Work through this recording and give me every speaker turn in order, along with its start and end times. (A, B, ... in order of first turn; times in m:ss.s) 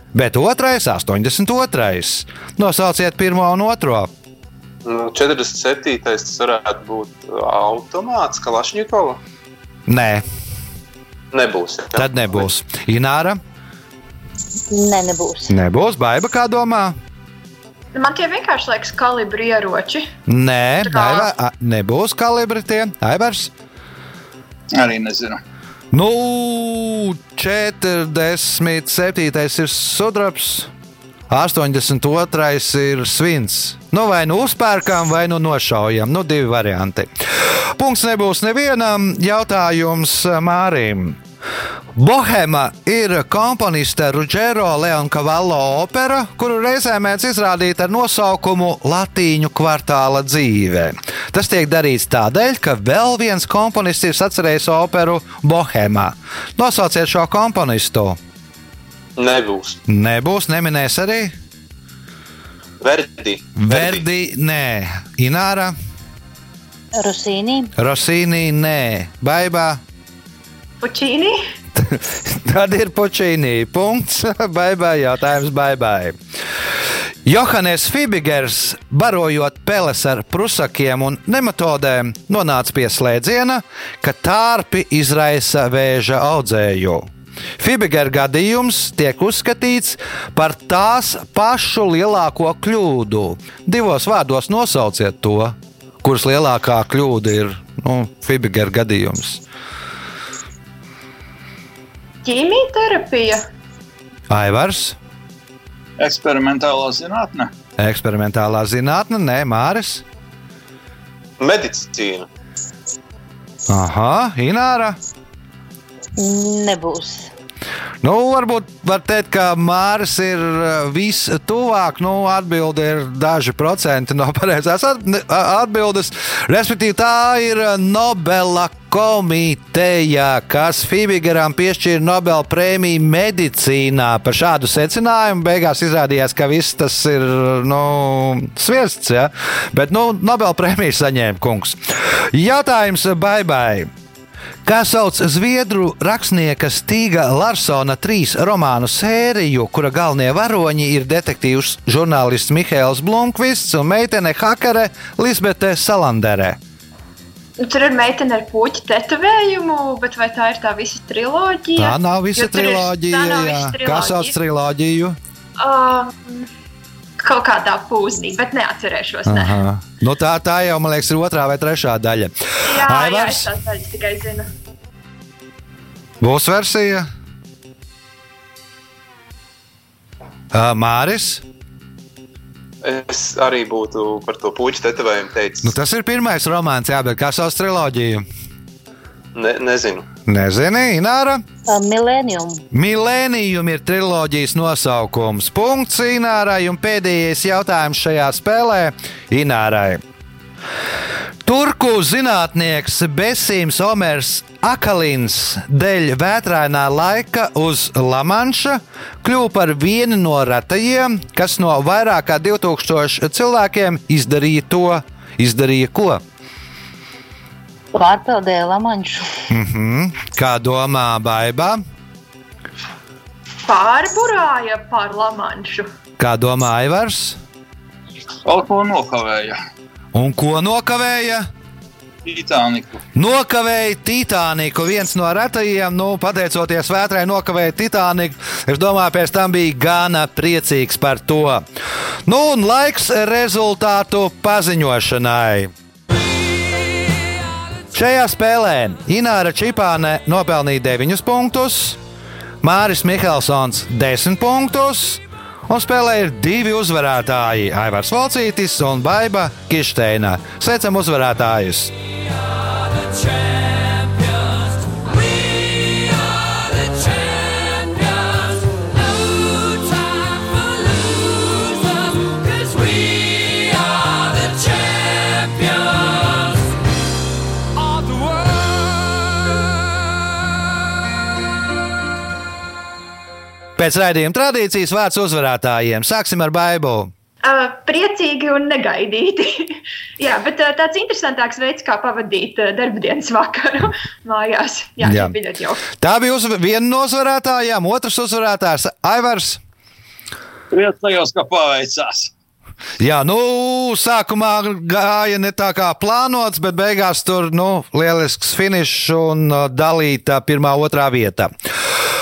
0:00.1-0:04.1 A
0:04.8-0:09.2 B
0:09.9-0:10.2 A
0:11.3-0:12.4 B
0:12.0-0:13.4 A
0:14.7-0:15.6 C
0:15.5-0:17.0 A
0:17.9-0:20.1 D
0:20.3-0:23.5 A
0:20.8-0:21.3 D
0:24.7-0:25.4 E
0:25.9-0:30.7 A
0:31.3-0:41.2 A
0:42.0-0:58.2 A
0:59.2-0:59.8 B
0:59.9-1:01.3 A
1:02.8-1:04.0 B
1:03.6-1:05.7 A
1:07.0-1:07.7 C
1:07.8-1:09.8 A
1:10.8-1:11.4 D
1:11.8-1:16.2 A
1:17.2-1:39.4 A
1:42.2-1:43.4 D
1:44.3-1:45.0 A
1:46.0-1:47.5 E
1:47.8-1:50.0 A
1:51.4-1:52.3 B
1:53.7-1:55.0 A
1:56.2-1:57.3 C
1:58.0-2:23.9 A
2:24.6-2:36.6 A
2:37.6-2:44.4 D
2:41.8-2:45.2 A
2:45.6-2:46.5 D
2:47.2-2:49.6 D
2:49.3-2:53.5 A
2:52.6-2:54.5 D
2:56.2-2:57.1 A
3:00.5-3:01.4 A
3:02.8-3:05.7 B
3:05.6-3:08.2 A
3:09.4-3:10.1 B
3:10.3-3:11.4 A
3:11.7-3:12.6 C
3:12.7-3:20.0 A
3:21.4-3:36.2 A
3:37.9-3:39.3 C
3:39.5-3:41.8 A
3:43.6-3:45.9 D
3:46.2-3:47.4 A
3:48.5-3:49.6 E
3:50.1-3:51.5 A
3:52.2-3:53.0 E
3:53.2-4:01.6 A
4:02.3-4:05.7 A
4:07.9-4:12.0 A
4:12.6-4:22.0 A
4:43.8-4:47.1 A
4:47.4-4:55.9 D
4:55.0-4:55.4 A
4:55.9-4:59.6 A
5:00.7-5:02.3 E
5:03.0-5:11.5 A